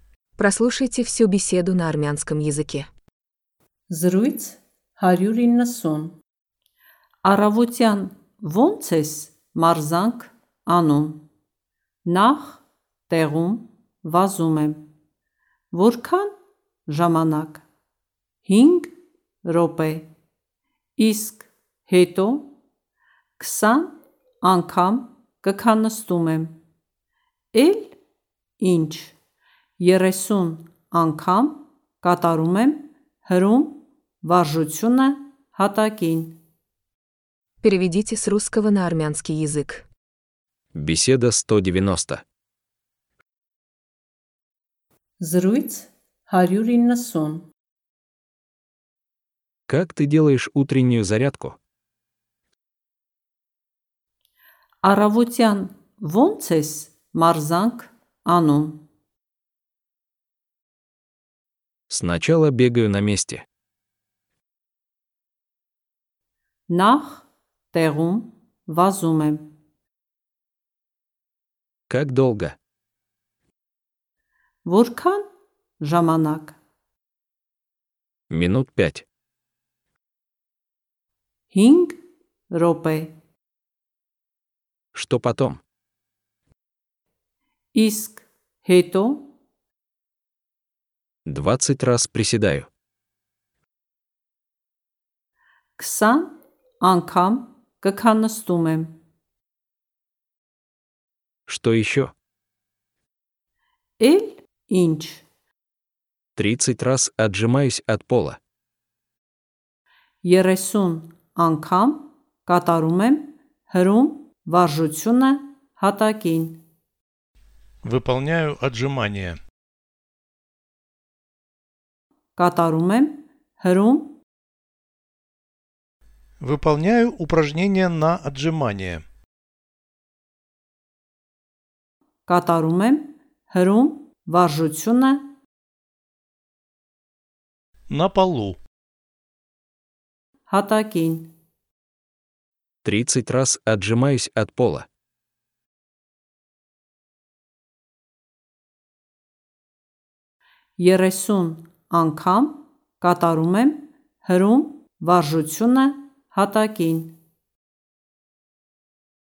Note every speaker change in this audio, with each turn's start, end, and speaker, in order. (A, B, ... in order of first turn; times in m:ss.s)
0:00.4-0:02.9 A
0:03.9-0:06.2 B
0:07.2-0:11.2 B
0:12.1-0:14.9 B
0:15.7-0:16.3 B
0:16.9-0:17.6 B
0:18.5-0:18.9 B
0:19.4-0:20.1 B
0:21.0-0:22.5 B
0:23.4-0:26.6 B
0:27.5-0:28.0 B
0:28.6-0:29.2 B
0:29.8-0:36.4 B
0:37.6-0:39.8 A
0:40.7-0:42.2 C
0:45.2-0:47.5 B
0:49.7-0:51.6 C
0:54.8-0:58.8 B
1:01.9-1:03.5 C
1:06.7-1:09.5 B
1:11.9-1:12.6 C
1:14.6-1:15.2 B
1:15.8-1:16.6 B
1:18.3-1:19.0 C
1:21.5-1:22.0 B
1:22.5-1:23.2 B
1:24.9-1:25.6 C
1:27.7-1:29.3 B
1:31.3-1:32.7 C
1:35.8-1:39.0 B
1:41.5-1:42.1 C
1:44.0-1:45.3 B
1:46.4-1:48.4 C
1:50.2-1:56.6 B
1:57.8-1:59.4 D
2:02.4-2:04.2 B
2:06.4-2:09.0 D
2:12.3-2:15.3 B
2:17.9-2:18.6 D
2:20.5-2:21.3 B
2:22.8-2:24.9 C
2:30.8-2:37.2 B